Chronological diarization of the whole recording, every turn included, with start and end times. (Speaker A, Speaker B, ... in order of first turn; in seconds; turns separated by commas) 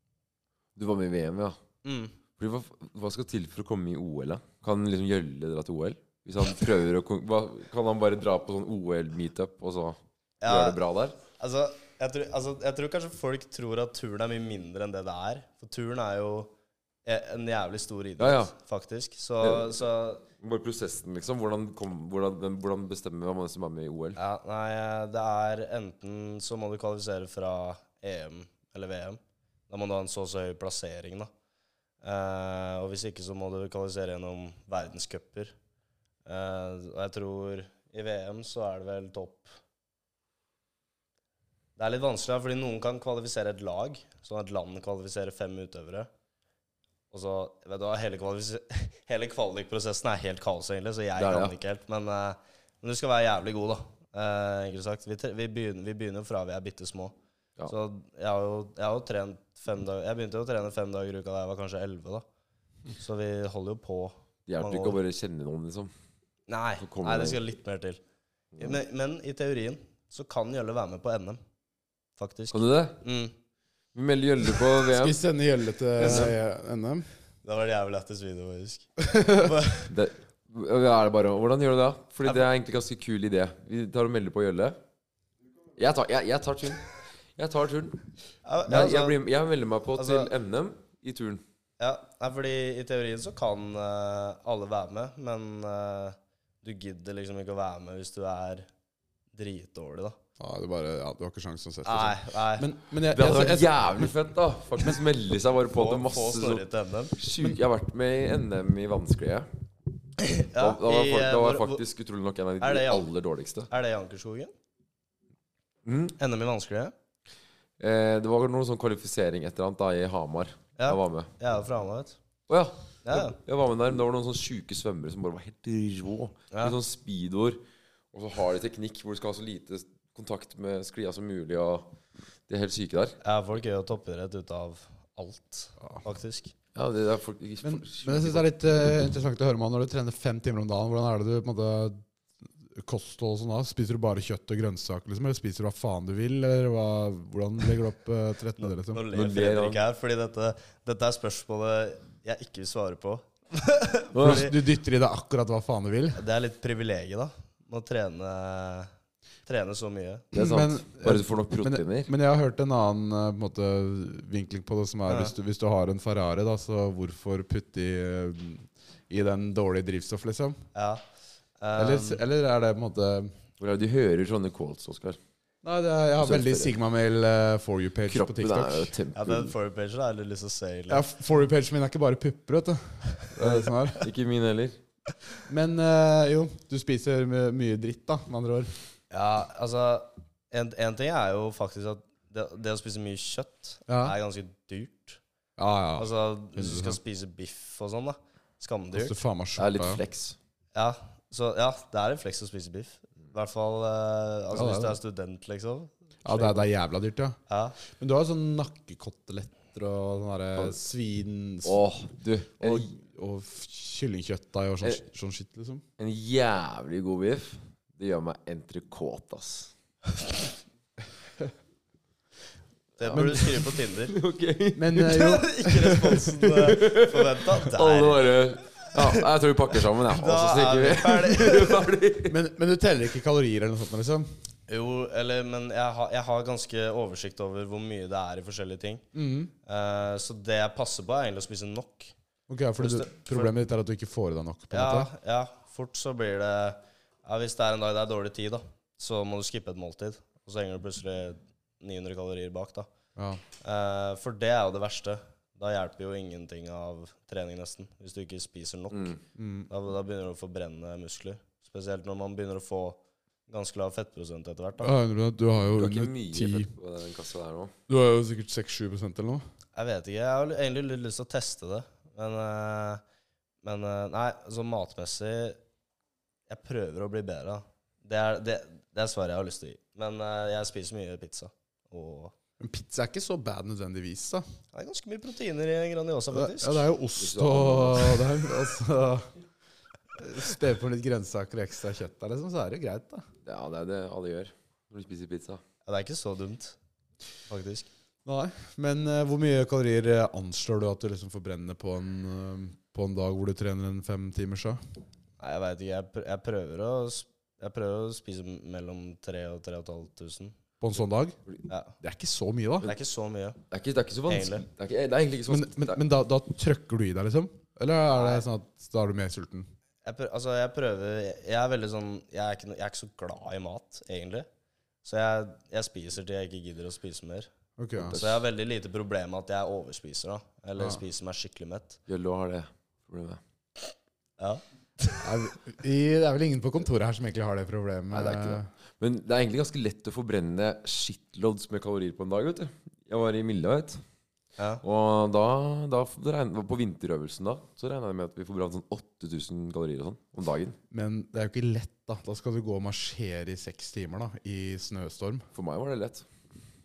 Speaker A: 0.8-1.6, Speaker B: 1.8-2.2, Speaker A: 2.4-11.2, Speaker B: 10.4-16.5, Speaker B: 17.1-20.2, Speaker A: 18.2-18.5, Speaker A: 19.4-19.8, Speaker A: 20.4-24.2, Speaker B: 24.2-31.3, Speaker B: 32.0-35.5, Speaker B: 36.3-39.5, Speaker B: 41.8-46.1, Speaker B: 47.1-57.1, Speaker A: 51.2-51.5, Speaker B: 57.7-62.2, Speaker B: 63.0-65.0, Speaker A: 64.5-65.9, Speaker B: 66.5-68.0, Speaker A: 66.8-67.4, Speaker B: 68.6-71.4, Speaker B: 72.2-73.3, Speaker A: 72.5-73.0, Speaker A: 73.9-75.2, Speaker C: 74.9-77.1, Speaker B: 76.0-76.3, Speaker A: 76.0-76.3, Speaker B: 77.4-79.9, Speaker C: 79.0-79.5, Speaker A: 79.8-84.8, Speaker A: 85.8-88.0, Speaker B: 88.5-89.2, Speaker A: 88.7-91.4, Speaker B: 90.0-90.3, Speaker B: 91.8-98.7, Speaker B: 99.3-100.2, Speaker C: 100.4-104.1, Speaker B: 101.8-102.7, Speaker A: 103.1-109.5, Speaker B: 105.7-107.2, Speaker B: 110.2-111.8, Speaker A: 110.5-113.7, Speaker B: 112.6-113.1, Speaker B: 113.7-114.5, Speaker A: 115.8-116.2, Speaker B: 116.2-116.9, Speaker A: 117.8-121.3, Speaker B: 120.8-122.2, Speaker A: 122.5-127.6, Speaker B: 123.0-123.4, Speaker A: 128.1-131.9, Speaker A: 132.5-133.2, Speaker B: 133.2-136.5, Speaker A: 136.8-138.5, Speaker C: 137.6-142.0, Speaker C: 142.7-149.1, Speaker B: 148.6-154.6, Speaker A: 149.1-149.8, Speaker A: 154.1-154.5, Speaker C: 154.2-156.2, Speaker B: 156.2-158.9, Speaker B: 159.5-160.3, Speaker A: 160.3-162.1, Speaker C: 160.3-170.6, Speaker B: 165.1-165.3, Speaker B: 170.7-171.0, Speaker B: 171.6-172.2, Speaker C: 171.8-173.3, Speaker A: 173.6-175.2, Speaker C: 175.6-178.9, Speaker A: 176.2-176.8, Speaker A: 178.1-179.5, Speaker B: 179.2-181.1, Speaker C: 180.9-184.1, Speaker A: 184.0-184.8, Speaker C: 185.5-188.7, Speaker B: 189.1-195.2, Speaker C: 193.9-194.2, Speaker C: 195.6-197.0, Speaker B: 196.0-199.2, Speaker C: 198.9-200.0, Speaker A: 199.6-200.4, Speaker B: 200.7-206.7, Speaker C: 204.5-205.0, Speaker C: 206.2-207.4, Speaker B: 207.5-207.8, Speaker C: 207.9-211.8, Speaker A: 211.6-212.9, Speaker C: 212.6-215.8, Speaker A: 216.0-219.7, Speaker B: 223.0-224.2, Speaker A: 223.0-225.3, Speaker C: 223.1-223.7, Speaker C: 224.8-226.3, Speaker B: 225.0-229.2, Speaker A: 226.4-232.4, Speaker B: 230.1-231.9, Speaker C: 232.3-234.3, Speaker B: 234.7-239.1, Speaker C: 239.1-239.5, Speaker B: 239.7-242.1, Speaker C: 242.5-245.1, Speaker B: 242.8-243.5, Speaker B: 244.7-252.9, Speaker C: 253.2-253.4, Speaker B: 253.6-264.9, Speaker A: 258.9-259.2, Speaker C: 259.4-259.7, Speaker C: 264.8-266.7, Speaker A: 265.8-267.7, Speaker C: 267.9-269.4, Speaker B: 269.8-273.0, Speaker B: 273.6-275.6, Speaker B: 276.5-282.3, Speaker C: 282.6-284.4, Speaker B: 284.7-286.9, Speaker C: 286.3-289.3, Speaker A: 287.2-288.3, Speaker C: 290.2-293.2, Speaker A: 293.4-295.6, Speaker B: 295.9-296.8, Speaker B: 297.5-297.9, Speaker C: 298.2-304.8, Speaker B: 305.4-310.6, Speaker C: 310.8-311.4, Speaker B: 311.7-311.9, Speaker C: 312.0-312.9, Speaker B: 312.8-313.6, Speaker A: 313.7-316.0, Speaker B: 314.3-314.7, Speaker C: 315.5-319.7, Speaker B: 318.1-318.4, Speaker B: 320.0-324.5, Speaker B: 325.0-327.5, Speaker C: 327.8-328.2, Speaker A: 328.0-328.4, Speaker B: 328.1-332.0, Speaker A: 332.1-333.4, Speaker B: 334.4-335.4, Speaker C: 335.2-338.7, Speaker A: 338.1-344.0, Speaker A: 344.8-350.8, Speaker C: 350.9-355.5, Speaker A: 355.5-356.3